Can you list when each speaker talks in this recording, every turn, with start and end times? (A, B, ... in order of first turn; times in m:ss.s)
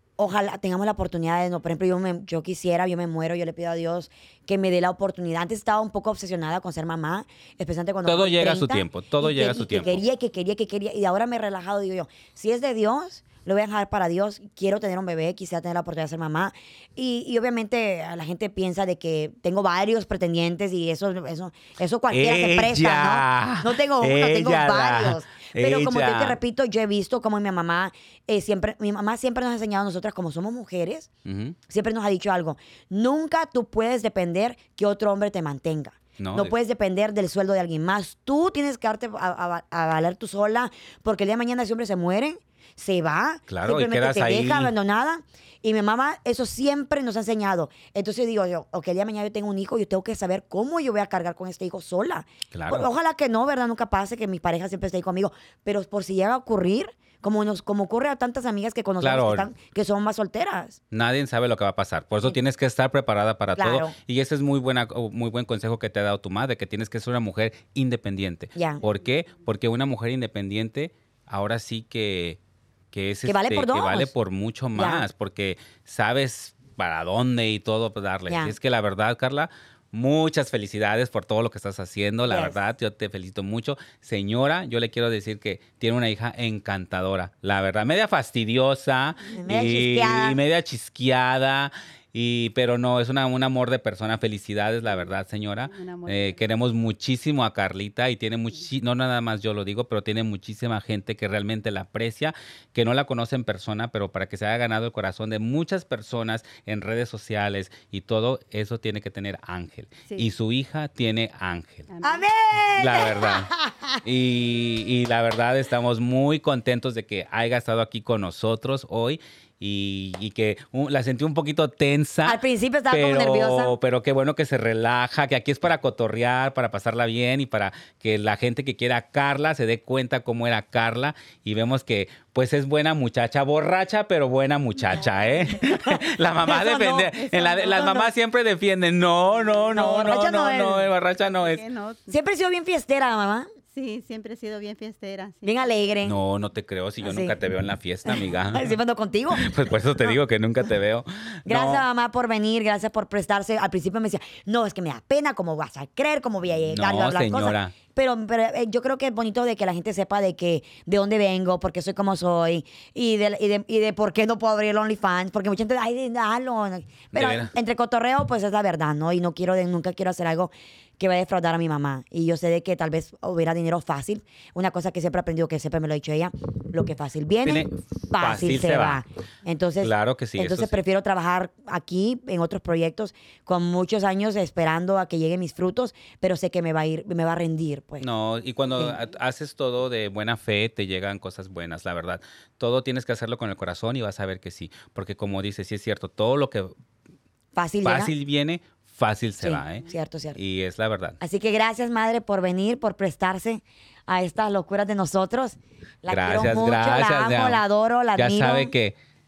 0:00.2-0:31.1 A
0:08.0-0:10.0 B
0:22.1-0:26.4 B
0:31.3-0:31.6 B
0:31.7-1:00.8 A
0:36.2-0:36.5 B
0:43.5-0:44.7 B
0:52.5-0:52.9 B
0:59.0-0:59.5 B
1:00.9-1:12.4 B
1:03.6-1:03.9 A
1:08.6-1:08.8 A
1:12.9-1:51.9 B
1:13.3-1:14.1 A
1:14.8-1:15.0 A
1:18.3-1:18.6 A
1:22.3-1:22.6 A
1:29.3-1:30.4 A
1:34.9-1:36.4 C
1:51.9-1:52.3 C
1:52.0-1:54.0 A
1:52.8-1:53.5 B
1:54.0-2:02.4 B
2:02.2-2:03.7 A
2:02.9-2:21.6 B
2:15.6-2:18.1 A
2:17.1-2:17.9 C
2:19.3-2:20.2 C
2:19.7-2:20.9 A
2:21.2-2:22.1 C
2:22.1-2:23.5 A
2:23.7-2:25.7 C
2:25.4-2:26.2 A
2:26.0-2:28.7 B
2:27.0-2:27.3 A
2:28.0-2:30.2 A
2:29.3-2:31.8 B
2:31.4-3:08.1 A
2:36.7-2:37.7 B
2:47.1-2:47.5 B
2:57.4-2:59.0 B
2:59.8-3:00.8 B
3:08.0-3:16.7 B
3:17.6-3:18.1 A
3:17.8-3:21.2 B
3:19.4-3:20.4 A
3:21.2-3:28.7 A
3:26.1-3:27.6 B
3:28.2-3:29.0 B